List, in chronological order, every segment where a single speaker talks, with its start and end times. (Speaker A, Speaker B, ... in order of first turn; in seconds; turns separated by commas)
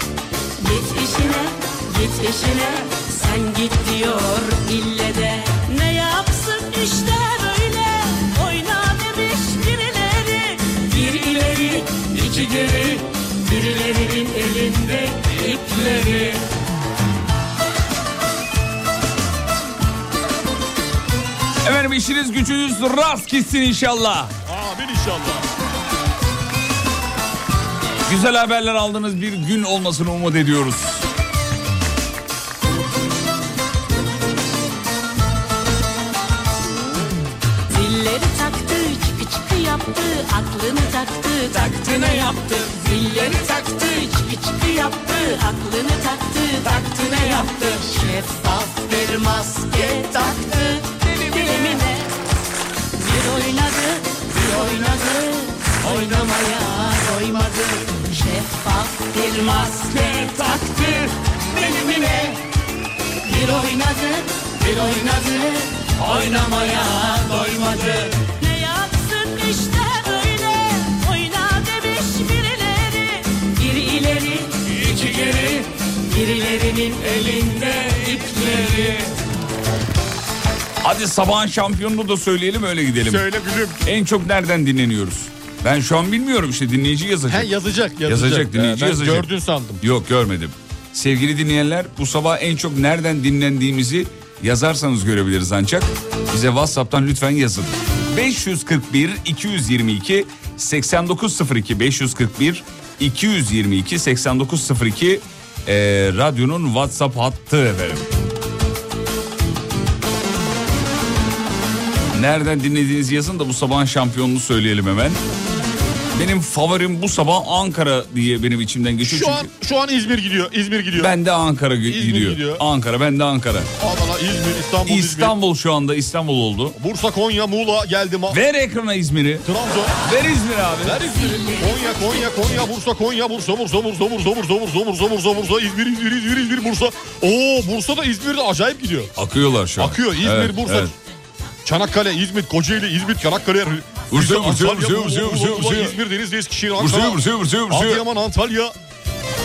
Speaker A: 0.6-16.4, Speaker B: 21.6-24.3, Speaker C: 24.5-25.4, Speaker B: 28.1-31.1, Speaker A: 37.7-52.1, Speaker A: 53.0-62.4, Speaker A: 63.2-79.1, Speaker B: 80.8-83.3, Speaker C: 83.0-83.8, Speaker B: 83.8-87.5, Speaker C: 87.3-89.8, Speaker B: 88.0-89.3, Speaker B: 89.8-108.1, Speaker B: 112.1-115.2, Speaker B: 116.1-119.5, Speaker C: 119.0-121.1, Speaker B: 120.9-123.7, Speaker C: 121.9-122.6, Speaker C: 123.8-125.3, Speaker B: 124.8-126.8, Speaker C: 126.7-128.4, Speaker B: 128.3-129.5, Speaker C: 129.4-129.9, Speaker B: 130.0-131.0, Speaker C: 130.8-139.1, Speaker A: 131.0-132.6, Speaker B: 139.2-140.9, Speaker C: 139.8-140.9, Speaker C: 141.6-148.7, Speaker B: 144.1-146.0, Speaker B: 146.8-148.0